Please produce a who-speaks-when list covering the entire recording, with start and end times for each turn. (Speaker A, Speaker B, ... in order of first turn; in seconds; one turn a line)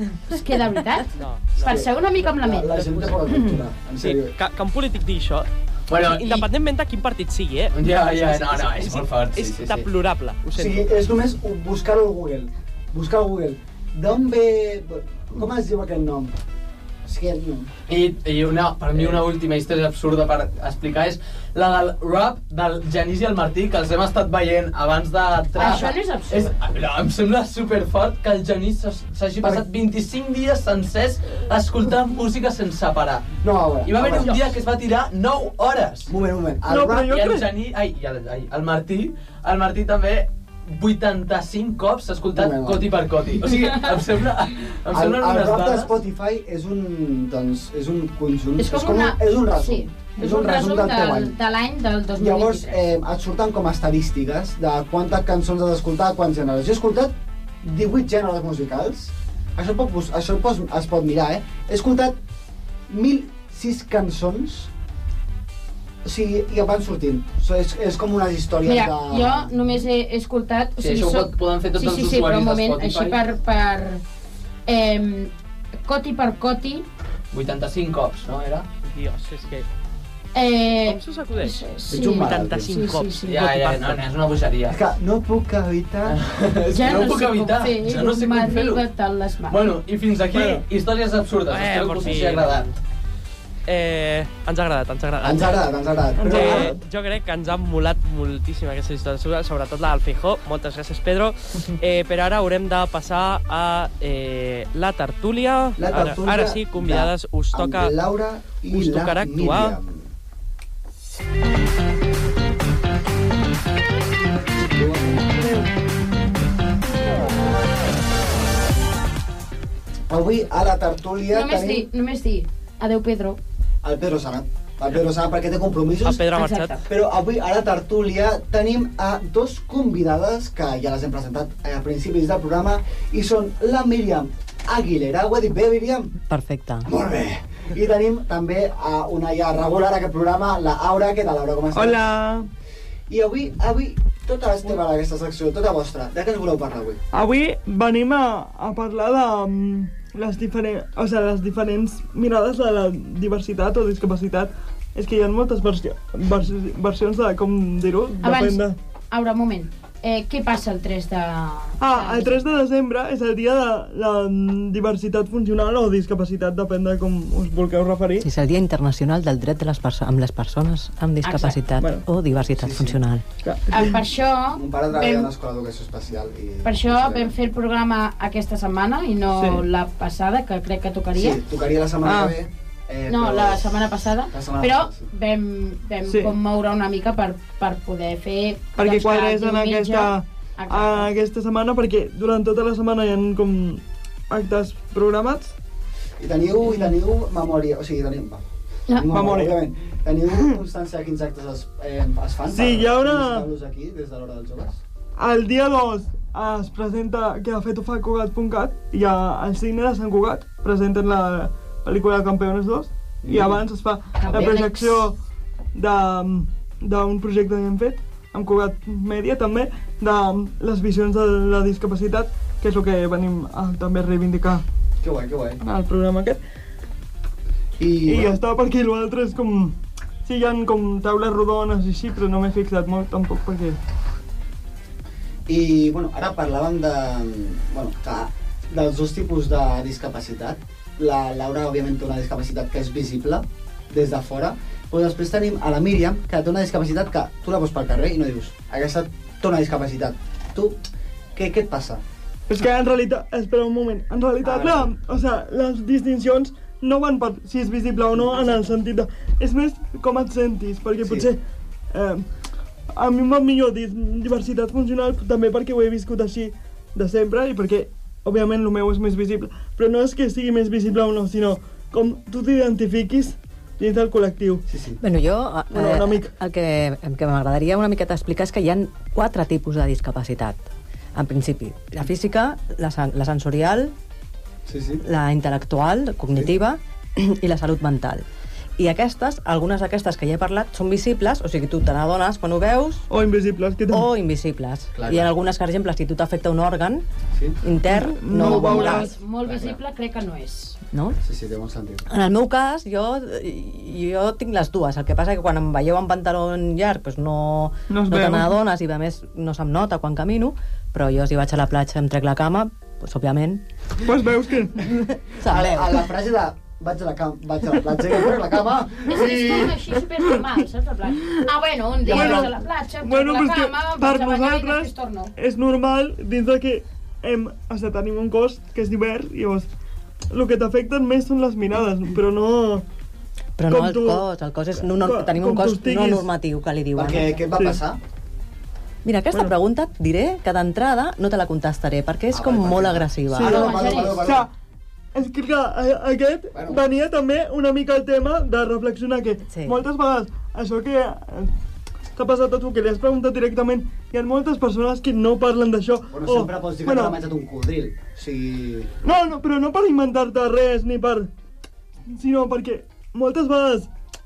Speaker A: 0.3-3.2
Speaker B: 1.1-1.9
Speaker C: 1.6-4.3
Speaker B: 4.0-10.9
Speaker D: 5.9-6.5
Speaker D: 7.7-9.8
Speaker C: 10.6-16.4
Speaker C: 17.1-17.7
Speaker D: 17.9-33.3
Speaker A: 25.6-26.5
Speaker C: 33.4-34.4
Speaker D: 33.9-36.1
Speaker B: 34.1-34.4
Speaker C: 36.1-37.1
Speaker E: 36.7-37.5
Speaker D: 37.1-46.0
Speaker C: 42.3-42.9
Speaker C: 44.9-51.4
Speaker A: 48.6-52.8
Speaker C: 52.2-62.2
Speaker C: 62.9-64.7
Speaker C: 66.0-69.5
Speaker A: 68.7-74.0
Speaker D: 70.8-73.2
Speaker A: 74.7-75.3
Speaker A: 75.8-76.9
Speaker D: 77.3-78.7
Speaker B: 78.8-79.7
Speaker A: 80.3-83.5
Speaker B: 80.8-84.0
Speaker C: 81.9-82.7
Speaker D: 83.2-84.8
Speaker C: 84.7-86.2
Speaker D: 86.1-88.8
Speaker A: 86.7-89.7
Speaker D: 89.5-92.7
Speaker E: 90.3-90.7
Speaker B: 91.5-92.8
Speaker B: 93.7-95.6
Speaker C: 95.2-96.7
Speaker E: 96.2-96.8
Speaker B: 96.2-108.0
Speaker C: 105.8-110.1
Speaker B: 108.7-109.8
Speaker C: 114.5-115.5
Speaker C: 120.1-121.9
Speaker A: 121.3-123.4
Speaker C: 123.8-126.3
Speaker B: 126.0-126.8
Speaker A: 126.3-126.8
Speaker C: 126.9-136.2
Speaker F: 136.3-136.9
Speaker C: 136.8-142.1
Speaker E: 141.7-142.5
Speaker C: 143.1-147.0
Speaker E: 147.1-158.8
Speaker A: 158.2-162.5
Speaker E: 161.8-168.3
Speaker F: 168.2-173.2
Speaker A: 171.2-171.6
Speaker E: 171.8-172.1
Speaker C: 172.6-173.0
Speaker E: 173.4-174.0
Speaker A: 173.7-175.3
Speaker C: 174.5-177.3
Speaker A: 176.6-181.4
Speaker E: 179.3-179.6
Speaker C: 181.1-183.8
Speaker E: 182.0-182.3
Speaker A: 183.1-191.1
Speaker C: 184.3-185.1
Speaker E: 186.1-186.3
Speaker E: 188.8-195.6
Speaker C: 196.2-204.8
Speaker A: 198.9-199.2
Speaker E: 199.1-199.6
Speaker E: 202.5-203.5
Speaker E: 205.2-215.2
Speaker C: 213.2-213.6
Speaker A: 214.2-215.0
Speaker E: 215.7-224.6
Speaker C: 225.0-225.6
Speaker E: 225.6-226.4
Speaker C: 227.8-228.4
Speaker E: 228.1-233.8
Speaker C: 235.5-250.8
Speaker C: 251.3-252.0
Speaker E: 252.5-261.4
Speaker C: 254.4-254.9
Speaker C: 258.2-258.7
Speaker C: 261.0-261.3
Speaker E: 261.9-262.3
Speaker E: 262.9-274.6
Speaker C: 274.7-275.0
Speaker F: 275.0-280.6
Speaker E: 275.7-276.3
Speaker F: 281.2-283.9
Speaker C: 284.7-285.0
Speaker F: 285.0-288.2
Speaker F: 288.8-293.1
Speaker E: 293.1-294.1
Speaker F: 293.9-297.1
Speaker C: 294.9-295.3
Speaker C: 297.3-297.6
Speaker F: 297.6-299.1
Speaker E: 297.9-299.1
Speaker C: 298.3-299.8
Speaker A: 298.5-300.8
Speaker F: 300.9-301.2
Speaker C: 301.2-302.1
Speaker F: 302.1-313.6
Speaker E: 307.9-308.6
Speaker E: 314.1-314.8
Speaker F: 314.8-316.1
Speaker C: 315.4-319.8
Speaker A: 319.1-325.3
Speaker C: 322.0-322.6
Speaker E: 322.1-329.7
Speaker E: 330.3-332.8
Speaker F: 333.6-337.4
Speaker E: 333.7-334.3
Speaker E: 334.9-336.3
Speaker C: 336.9-338.0
Speaker F: 339.0-343.6
Speaker C: 342.3-344.5
Speaker E: 343.3-344.5
Speaker A: 343.4-344.2
Speaker E: 345.1-351.5
Speaker C: 346.5-346.8
Speaker F: 349.5-349.8
Speaker E: 352.2-357.2
Speaker C: 356.1-358.9
Speaker E: 359.0-361.3
Speaker E: 362.1-363.9